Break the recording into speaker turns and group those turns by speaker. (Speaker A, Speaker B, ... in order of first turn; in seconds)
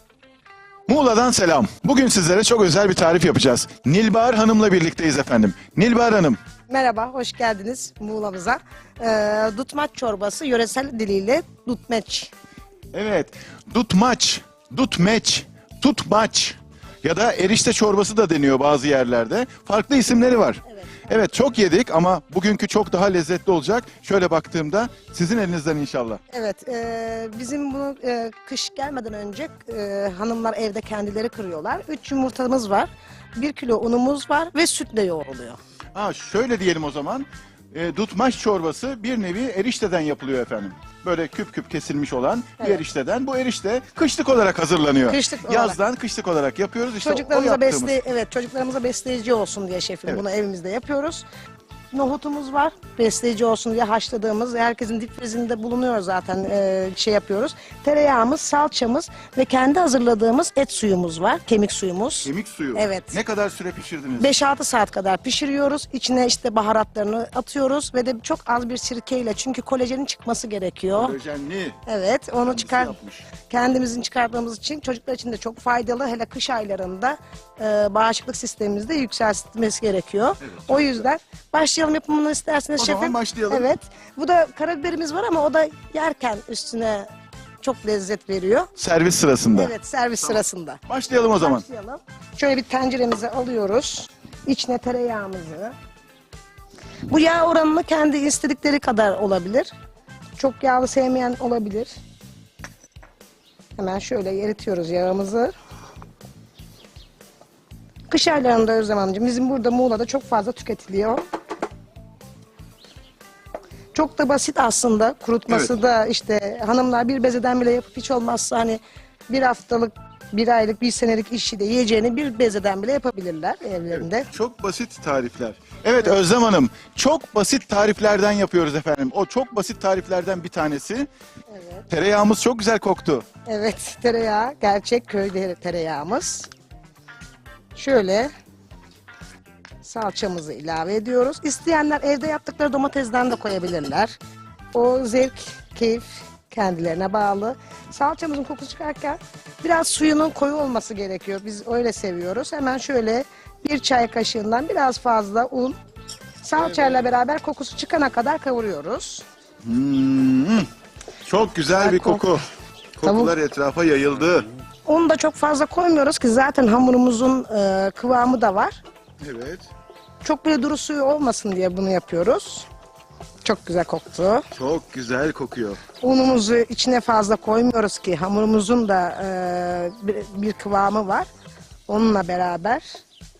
Speaker A: 0.9-6.4, 12.9-26.2, 35.9-48.0, 62.2-64.3, 70.9-71.8, 72.5-73.2, 80.4-80.9, 82.8-83.7, 88.8-91.6, 123.9-131.1, 131.9-133.2, 156.6-157.1, 159.6-160.7, 161.2-162.4, 163.0-164.5, 169.2-169.7, 174.5-175.8
Speaker B: 6.7-12.3, 20.7-21.1, 26.3-35.6, 45.1-45.8, 47.0-51.2, 51.9-63.1, 64.2-71.2, 71.8-87.1, 87.6-88.7, 89.5-90.8, 91.3-95.7, 97.1-99.7, 100.4-101.9, 103.8-105.5, 108.1-111.2, 113.9-124.3, 131.5-131.9, 133.5-136.5, 137.7-138.3, 139.8-144.1, 144.7-155.8, 156.4-159.2, 161.7-162.3, 163.0-163.3, 164.8-168.8, 170.2-172.7, 173.4-174.4, 176.0-181.3, 181.9-182.8